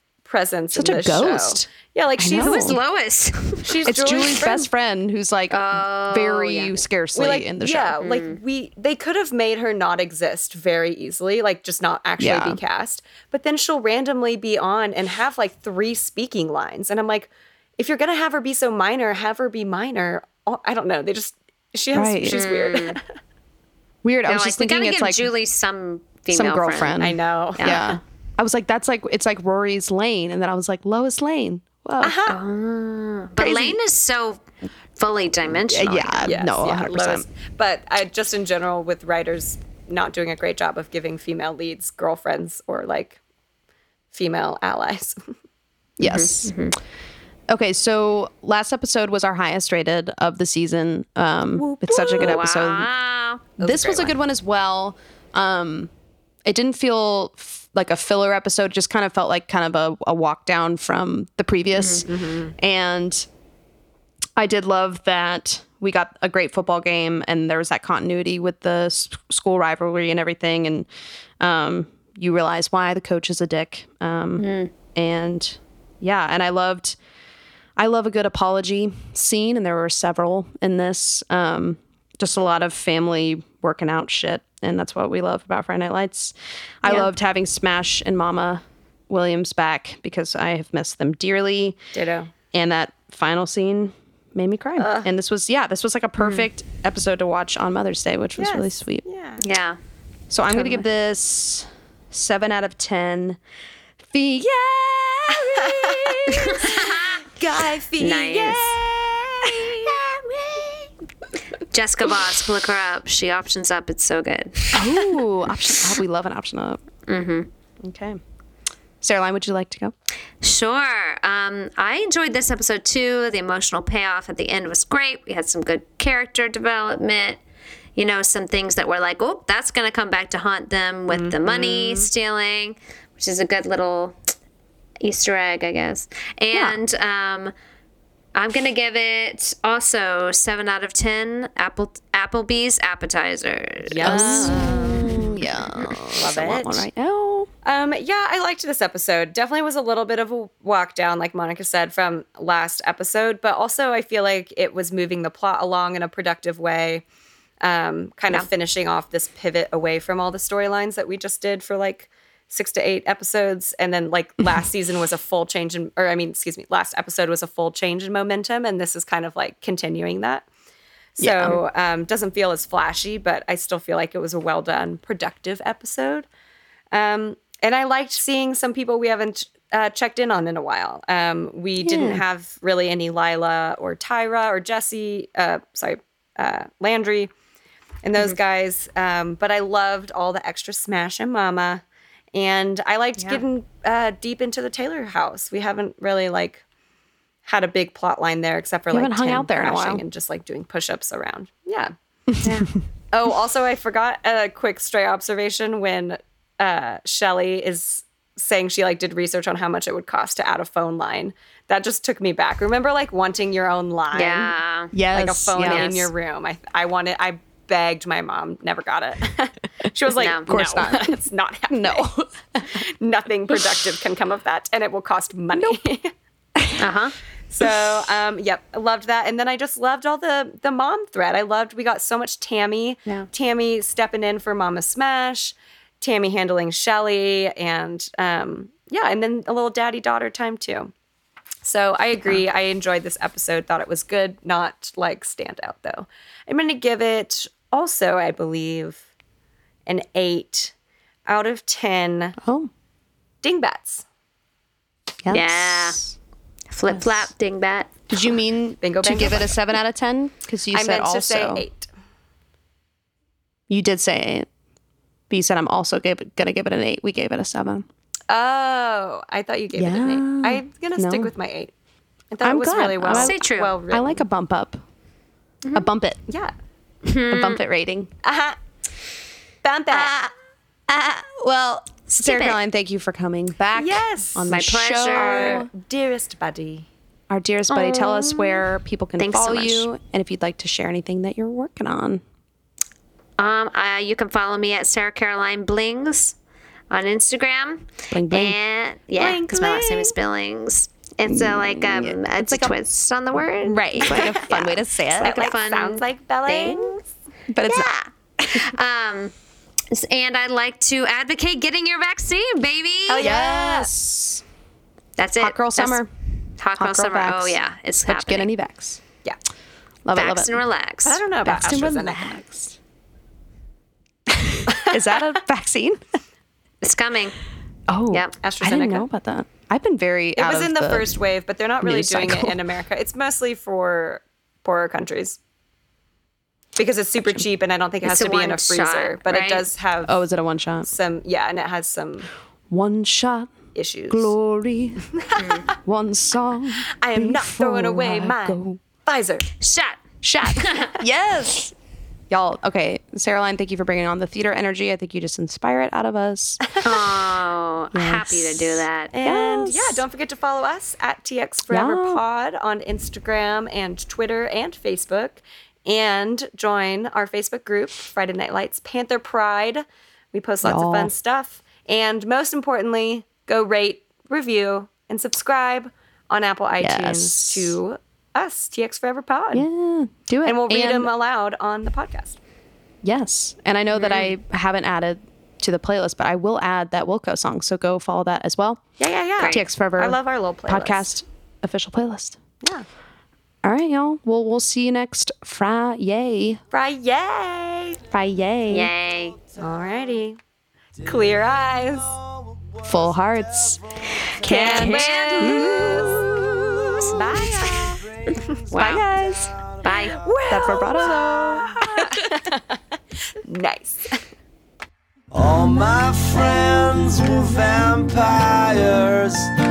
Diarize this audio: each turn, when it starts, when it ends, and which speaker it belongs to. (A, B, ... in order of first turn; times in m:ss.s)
0:00.2-0:02.8 A
0:00.7-0:02.8 B
0:02.4-0:03.6 C
0:03.6-0:04.7 A
0:03.8-0:08.0 B
0:05.5-0:06.8 C
0:07.2-0:23.0 A
0:08.0-0:08.4 C
0:12.2-0:12.6 B
0:21.9-0:22.4 B
0:22.3-0:23.0 C
0:24.0-0:25.3 B
0:24.3-0:27.0 C
0:26.3-0:32.2 B
0:27.0-0:28.0 A
0:27.6-0:28.0 C
0:32.0-0:32.4 A
0:32.3-0:34.4 C
0:33.4-0:33.8 A
0:35.0-0:36.4 C
0:35.7-0:37.2 B
0:36.2-0:43.2 A
0:44.1-0:45.3 A
0:46.0-0:46.6 B
0:46.0-0:46.8 C
0:47.5-0:52.9 B
0:51.6-0:52.4 A
0:51.9-0:53.5 C
0:53.6-0:55.9 B
0:53.6-0:54.2 A
0:56.4-1:03.3 B
1:01.8-1:02.0 C
1:02.1-1:02.6 A
1:04.4-1:10.9 B
1:11.4-1:17.0 B
1:14.4-1:14.7 C
1:17.8-1:31.8 B
1:31.9-1:32.3 A
1:32.5-1:39.0 B
1:34.8-1:35.1 A
1:36.2-1:36.5 C
1:38.4-1:39.4 A
1:39.4-1:39.8 C
1:40.3-1:43.4 B
1:44.1-1:46.7 B
1:45.5-1:50.9 A
1:46.4-1:47.2 C
1:48.0-1:48.8 C
1:51.7-1:55.1 C
1:54.7-1:56.8 B
1:57.1-1:57.5 C
1:57.8-1:58.2 B
1:59.0-1:59.9 B
2:00.4-2:07.4 C
2:08.0-2:14.2 C
2:11.1-2:12.1 A
2:15.0-2:17.5 C
2:16.5-2:16.8 B
2:18.4-2:25.2 C
2:23.9-2:25.1 A
2:24.0-2:27.5 B
2:26.1-2:26.9 A
2:27.6-2:37.0 A
2:37.6-2:50.5 A
2:51.2-2:56.3 A
2:51.2-2:51.6 B
2:56.9-3:07.3 A
3:01.8-3:02.2 B
3:08.0-3:11.8 A
3:12.3-3:16.6 A
3:17.4-3:21.9 A
3:18.9-3:20.0 B
3:23.1-3:34.5 A
3:34.1-3:34.9 C
3:34.9-3:36.1 B
3:35.1-3:42.1 A
3:35.6-3:35.9 C
3:40.2-3:40.5 C
3:40.5-3:42.8 B
3:42.7-3:46.1 A
3:46.6-3:46.8 B
3:46.8-3:47.2 C
3:47.5-4:00.9 A
4:01.6-4:09.0 A
4:09.9-4:10.7 A
4:11.3-4:12.4 A
4:12.4-4:12.7 B
4:13.4-4:14.0 A
4:15.2-4:16.2 B
4:15.3-4:16.0 C
4:16.7-4:18.0 C
4:16.9-4:17.3 B
4:18.1-4:21.6 B
4:18.8-4:19.6 A
4:20.7-4:21.9 A
4:23.7-4:24.5 B
4:25.3-4:27.9 B
4:28.3-4:31.7 A
4:29.7-4:31.3 B
4:32.3-4:34.2 A
4:32.4-4:34.8 B
4:33.0-4:33.7 C
4:35.6-4:35.9 C
4:35.7-4:36.2 B
4:37.0-4:37.6 C
4:37.3-4:38.1 B
4:38.2-4:38.6 A
4:39.6-4:40.1 A
4:39.9-4:40.3 B
4:40.9-4:45.7 B
4:42.1-4:42.6 C
4:43.8-4:46.9 A
4:44.5-4:45.6 C
4:47.3-4:52.2 B
4:47.7-4:48.7 C
4:49.2-4:49.9 C
4:53.4-4:56.4 C
4:56.9-5:07.0 C
4:58.1-4:58.6 B
4:59.2-5:00.2 A
5:01.3-5:05.5 B
5:04.1-5:04.4 A
5:05.2-5:07.0 A
5:07.5-5:08.6 B
5:07.6-5:09.3 C
5:09.9-5:13.3 C
5:13.1-5:13.9 A
5:13.2-5:14.4 B
5:15.2-5:16.0 C
5:15.4-5:16.1 B
5:16.6-5:18.5 C
5:16.8-5:19.0 B
5:20.0-5:20.7 B
5:20.1-5:21.2 C
5:21.0-5:22.4 A
5:21.4-5:22.8 B
5:24.3-5:26.0 B
5:24.7-5:25.2 A
5:26.8-5:27.4 C
5:27.9-5:31.2 B
5:28.4-5:29.1 A
5:30.4-5:35.4 A
5:31.8-5:32.6 B
5:36.8-5:40.2 A
5:38.0-5:39.6 C
5:40.0-5:40.9 B
5:40.8-5:42.3 A
5:42.7-5:43.6 B
5:43.8-5:44.4 A
5:44.1-5:45.1 B
5:45.2-5:45.4 A
5:45.4-5:45.7 C
5:45.8-5:48.8 B
5:47.0-5:49.5 A
5:49.6-5:50.0 C
5:50.2-5:51.7 B
5:50.6-5:50.9 C
5:52.3-5:56.6 B
5:56.7-5:57.0 A
5:56.8-5:59.1 C
5:57.9-6:00.0 B
5:59.1-6:19.7 A
6:01.7-6:02.2 B
6:10.6-6:11.1 B
6:16.8-6:17.8 B
6:19.5-6:21.1 B
6:20.4-6:22.4 A
6:23.0-6:28.8 B
6:24.0-6:24.3 C
6:29.0-6:31.1 A
6:29.4-6:32.4 B
6:33.6-6:36.6 B
6:36.7-6:38.0 A
6:38.1-6:38.9 B
6:38.7-6:39.4 C
6:39.6-6:40.4 A
6:41.0-6:42.1 A
6:41.0-6:44.4 D
6:42.8-6:43.8 B
6:44.4-6:46.4 B
6:44.5-6:45.7 C
6:44.5-6:46.3 A
6:46.0-6:46.2 D
6:47.0-6:48.0 A
6:47.7-6:49.9 D
6:48.7-6:50.2 C
6:48.7-6:49.4 A
6:50.0-6:52.6 A
6:50.5-6:52.0 B
6:53.4-6:54.2 A
6:55.3-6:59.5 D